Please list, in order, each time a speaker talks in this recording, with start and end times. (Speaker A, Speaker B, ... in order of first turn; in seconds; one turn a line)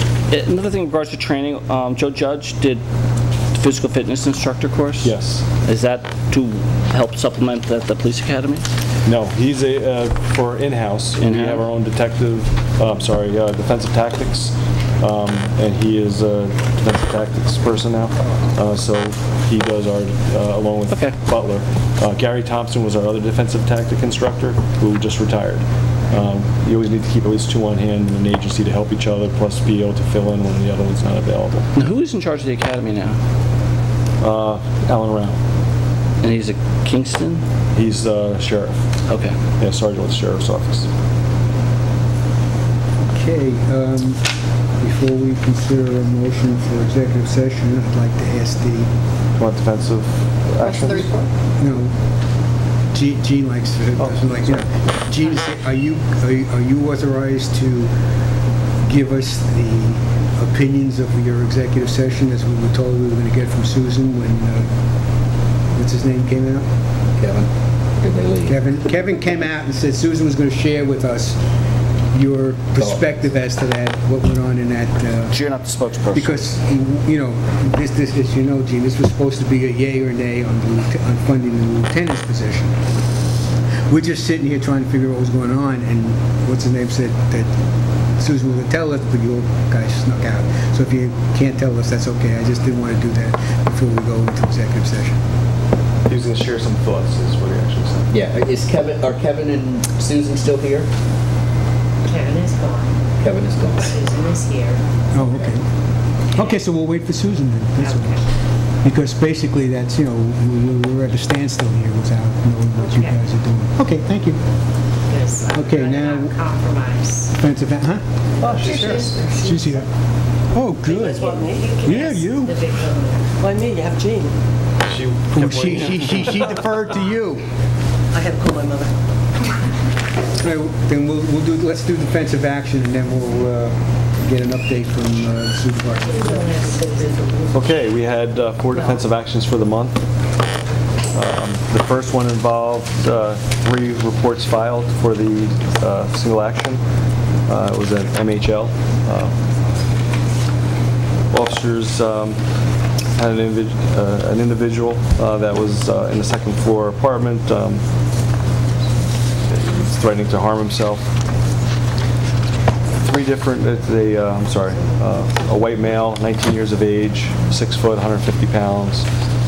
Speaker A: 0.3-2.8
Speaker A: 3.5-5.1
Speaker B: 5.0-5.4
Speaker A: 5.6-8.7
Speaker B: 9.1-31.7
Speaker A: 11.2-11.6
Speaker A: 20.9-21.1
Speaker A: 31.8-33.2
Speaker B: 34.2-35.4
Speaker A: 36.2-37.4
Speaker B: 37.7-38.9
Speaker A: 39.1-39.4
Speaker B: 39.6-40.9
Speaker C: 43.1-44.2
Speaker C: 44.8-48.9
Speaker B: 49.4-51.1
Speaker D: 50.6-51.2
Speaker C: 51.6-51.9
Speaker C: 52.9-57.9
Speaker B: 54.0-54.6
Speaker C: 58.9-64.7
Speaker C: 65.7-66.7
Speaker D: 67.2-68.6
Speaker C: 68.5-71.4
Speaker C: 72.1-75.4
Speaker D: 72.8-73.2
Speaker A: 75.3-76.5
Speaker C: 76.1-82.8
Speaker C: 83.9-87.5
Speaker C: 88.2-95.2
Speaker B: 96.1-98.1
Speaker D: 98.1-100.9
Speaker E: 102.0-103.0
Speaker D: 103.2-104.0
Speaker E: 103.8-104.8
Speaker C: 105.1-105.7
Speaker C: 106.3-108.2
Speaker E: 106.3-106.6
Speaker E: 107.8-108.2
Speaker C: 108.8-114.4
Speaker E: 112.8-113.2
Speaker E: 115.1-117.4
Speaker C: 115.5-116.4
Speaker C: 117.4-118.0
Speaker F: 118.4-119.3
Speaker B: 118.4-119.2
Speaker D: 118.7-119.3
Speaker C: 119.3-119.9
Speaker C: 120.5-122.5
Speaker F: 120.9-121.8
Speaker E: 121.1-123.2
Speaker F: 123.4-124.3
Speaker B: 124.8-126.3
Speaker C: 125.3-127.4
Speaker F: 128.1-128.9
Speaker C: 130.3-136.6
Speaker E: 136.0-137.4
Speaker B: 137.5-140.0
Speaker B: 141.1-146.8
Speaker B: 147.5-149.3
Speaker B: 151.3-152.4
Speaker B: 153.2-157.8
Speaker B: 159.5-161.1
Speaker B: 163.0-169.1